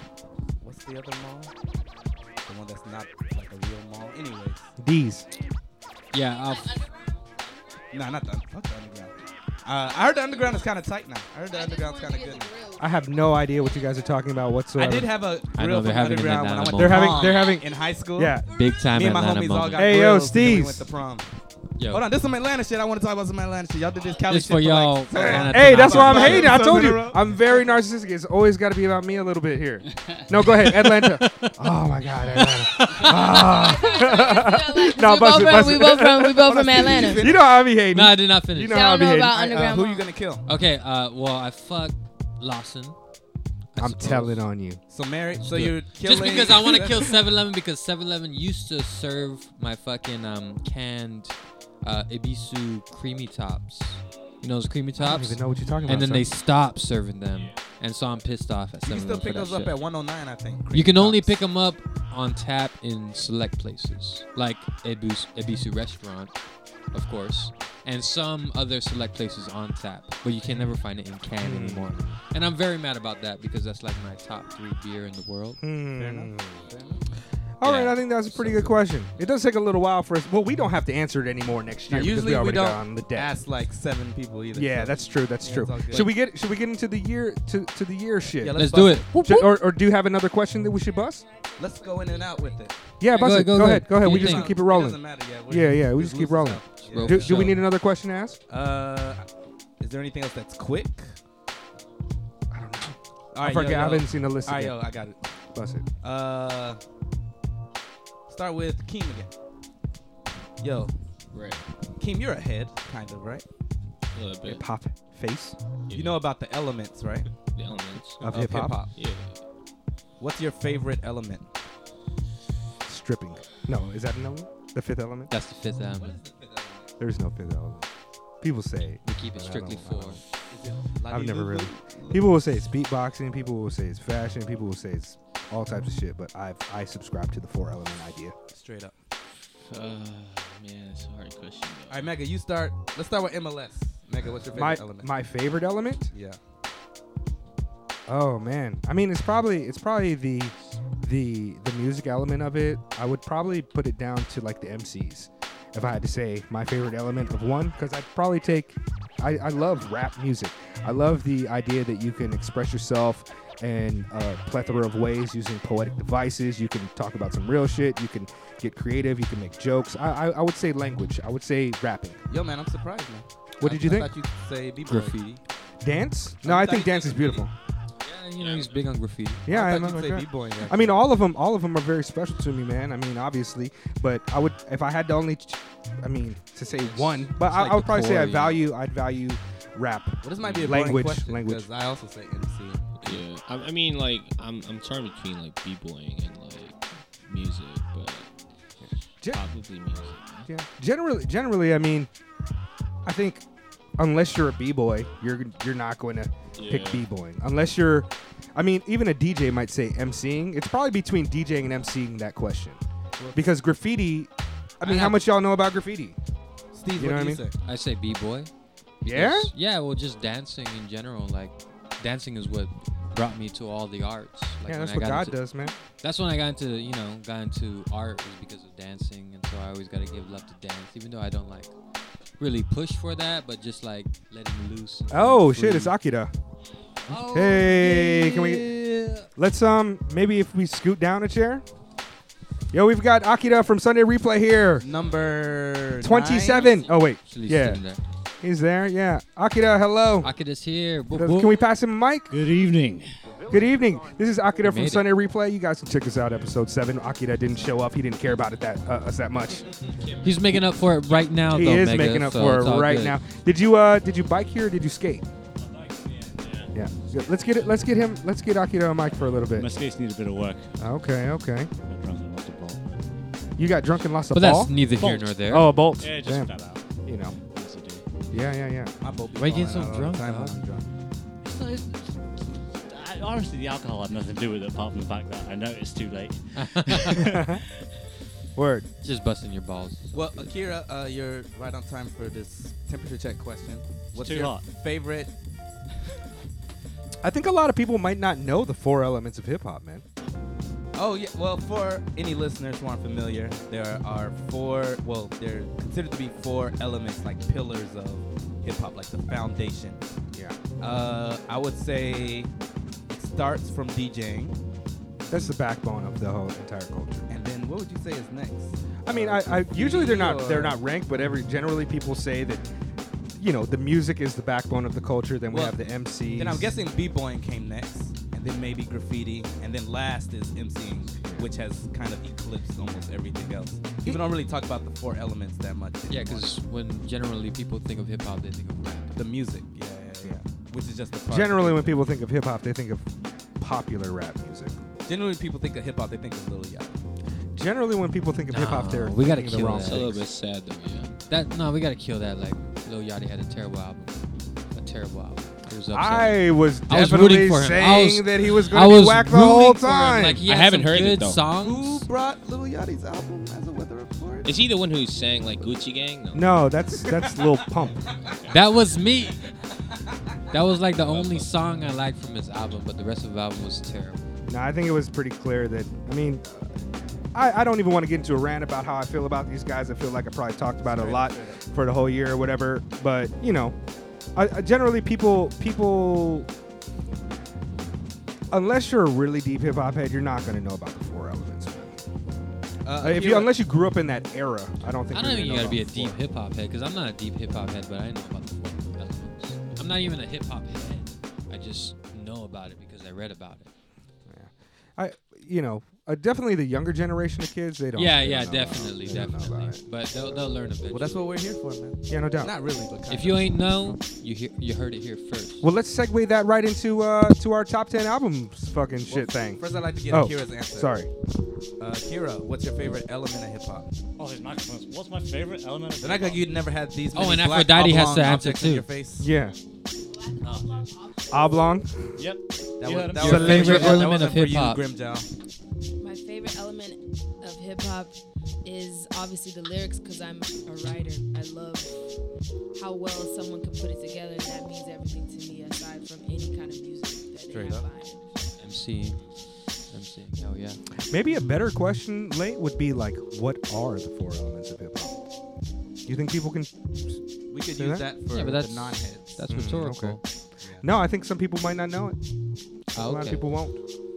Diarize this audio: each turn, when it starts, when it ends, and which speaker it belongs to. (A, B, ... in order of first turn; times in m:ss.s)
0:00.6-0:01.5 A
0:02.4-0:04.7 A
0:04.8-0:05.2 B
0:06.1-0:06.8 C
0:06.5-0:07.8 D
0:07.9-0:09.1 A
0:09.6-0:12.5 A
0:10.1-0:10.6 D
0:11.5-0:14.1 D
0:12.8-0:15.1 B
0:14.7-0:18.4 A
0:15.5-0:17.3 C
0:16.7-0:18.5 B
0:18.5-0:20.1 C
0:18.9-0:21.3 A
0:19.7-0:20.9 B
0:21.8-0:22.0 C
0:21.9-0:27.4 A
0:24.3-0:26.7 C
0:25.1-0:39.8 B
0:30.5-0:31.6 C
0:32.4-0:33.4 C
0:33.0-0:37.3 D
0:36.5-0:37.4 A
0:37.9-0:38.8 C
0:38.7-0:40.1 D
0:39.3-0:40.4 A
0:40.4-0:42.9 C
0:43.7-0:44.4 C
0:43.8-0:44.8 B
0:44.9-0:47.1 A
0:45.4-0:59.8 C
0:55.0-0:56.4 B
0:58.8-1:01.4 A
1:00.7-1:06.3 C
1:06.9-1:15.6 C
1:11.4-1:12.1 B
1:15.6-1:16.6 B
1:16.0-1:17.0 A
1:17.6-1:23.3 B
1:17.6-1:18.8 C
1:21.9-1:26.2 A
1:24.5-1:31.2 B
1:28.4-1:29.1 A
1:28.6-1:29.4 C
1:31.0-1:32.6 D
1:31.6-1:32.8 A
1:33.0-1:38.4 B
1:33.1-1:34.6 C
1:34.0-1:37.5 A
1:36.9-1:37.6 C
1:38.5-1:39.2 A
1:39.8-1:41.2 A
1:42.5-1:44.8 B
1:43.3-1:45.2 A
1:45.5-1:45.8 B
1:46.0-1:46.8 A
1:48.3-1:49.3 A
1:50.6-1:50.9 A
1:51.3-1:51.6 E
1:52.0-1:53.4 A
1:54.1-1:54.6 E
1:54.4-1:55.6 B
1:55.9-1:56.2 E
1:55.9-1:57.3 A
1:57.5-1:59.3 E
1:58.2-1:58.8 B
1:58.3-1:58.9 A
2:00.2-2:01.4 A
2:02.8-2:05.3 B
2:05.3-2:06.2 C
2:06.0-2:06.9 A
2:07.0-2:07.9 B
2:08.4-2:10.2 B
2:09.0-2:10.2 C
2:10.5-2:12.4 A
2:11.1-2:18.3 B
2:18.5-2:18.9 A
2:19.6-2:22.1 E
2:21.9-2:25.1 A
2:24.5-2:26.1 B
2:26.1-2:26.4 A
2:28.1-2:52.2 B
2:52.3-2:55.2 A
2:53.6-2:54.1 B
2:54.9-2:55.4 C
2:55.8-2:57.5 B
2:56.4-2:57.5 A
2:58.0-2:59.4 C
2:58.4-2:58.8 E
2:59.5-3:11.6 B
2:59.5-3:01.1 A
3:06.7-3:08.7 C
3:10.2-3:13.2 A
3:10.4-3:10.8 E
3:13.0-3:18.3 E
3:19.3-3:20.5 E
3:20.5-3:22.1 B
3:23.0-3:23.4 B
3:24.0-3:32.8 B
3:26.6-3:27.0 E
3:33.2-3:33.5 A
3:33.3-3:36.2 B
3:36.7-3:37.5 A
3:37.0-3:37.4 B
3:37.6-3:38.5 C
3:39.0-3:45.4 C
3:39.0-3:39.5 B
3:44.6-3:45.7 B
3:46.0-3:51.7 C
3:52.4-3:55.9 C
3:55.1-3:56.3 B
3:57.1-3:59.3 C
3:57.1-3:58.7 B
3:59.4-4:01.6 B
4:02.7-4:04.8 B
4:04.8-4:06.8 A
4:06.0-4:07.8 B
4:07.3-4:08.0 C
4:08.4-4:10.3 B
4:10.2-4:11.6 C
4:11.1-4:12.3 B
4:12.3-4:13.8 F
4:13.5-4:19.6 B
4:14.6-4:15.1 C
4:20.2-4:23.2 C
4:21.5-4:25.3 B
4:25.6-4:26.7 F
4:26.7-4:29.7 B
4:29.4-4:30.8 F
4:30.8-4:31.7 B
4:31.8-4:33.2 F
4:33.6-4:34.8 B
4:34.3-4:35.8 C
4:34.9-4:35.4 F
4:35.5-4:37.4 B
4:35.9-4:38.0 F
4:38.3-4:38.9 B
4:39.0-4:40.8 A
4:39.4-4:40.6 C
4:41.4-4:42.1 F
4:42.7-4:47.5 F
4:46.6-4:47.3 C
4:47.2-4:47.6 B
4:48.6-4:48.9 B
4:49.0-4:50.5 C
4:50.1-4:55.3 A
4:54.2-4:54.7 F
4:57.2-5:00.0 B
5:00.9-5:10.0 A
5:10.3-5:10.6 B
5:10.8-5:12.5 A
5:13.1-5:14.6 A
5:15.3-5:17.2 B
5:17.3-5:20.8 A
5:19.0-5:22.7 B
5:23.4-5:26.7 B
5:25.5-5:25.8 A
5:26.3-5:36.5 A
5:36.1-5:39.2 C
5:39.1-5:42.0 A
5:41.3-5:43.0 B
5:43.6-5:44.8 B
5:45.0-5:47.0 A
5:47.6-5:50.2 B
5:48.5-5:50.0 C
5:49.8-5:51.2 E
5:51.3-5:54.2 C
5:54.7-6:02.0 C
5:55.9-6:00.4 B
6:00.4-6:01.4 E
6:01.6-6:04.5 A
6:04.4-6:06.6 E
6:06.3-6:08.0 B
6:08.5-6:09.4 C
6:10.5-6:14.2 C
6:14.5-6:16.7 B
6:17.3-6:23.8 B
6:20.8-6:21.6 F
6:24.3-6:26.5 B
6:28.5-6:31.9 B
6:32.8-6:33.6 A
6:33.0-6:36.2 B
6:35.1-6:43.7 C
6:44.3-6:49.8 B
6:48.0-6:51.3 C
6:50.9-6:53.5 A
6:52.1-6:52.5 B
6:53.1-6:55.6 C
6:55.6-7:01.1 B
6:59.1-7:00.9 A
7:01.8-7:03.9 A
7:04.2-7:06.5 F
7:06.0-7:09.3 A
7:07.1-7:08.9 C
7:09.2-7:09.6 B
7:10.2-7:11.3 D
7:10.4-7:10.7 F
7:11.3-7:12.2 B
7:12.2-7:13.8 F
7:12.8-7:15.3 A
7:13.2-7:14.8 C
7:13.2-7:14.1 B
7:16.0-7:22.0 D
7:22.7-7:28.2 D
7:27.5-7:27.8 A
7:28.6-7:29.3 C
7:29.8-7:30.8 C
7:31.1-7:35.1 B
7:36.0-7:37.2 B
7:37.5-7:39.4 A
7:37.7-7:38.0 B
7:38.3-7:40.2 C
7:39.5-7:40.2 B
7:40.8-7:42.2 B
7:42.9-7:43.4 C
7:42.9-7:43.8 B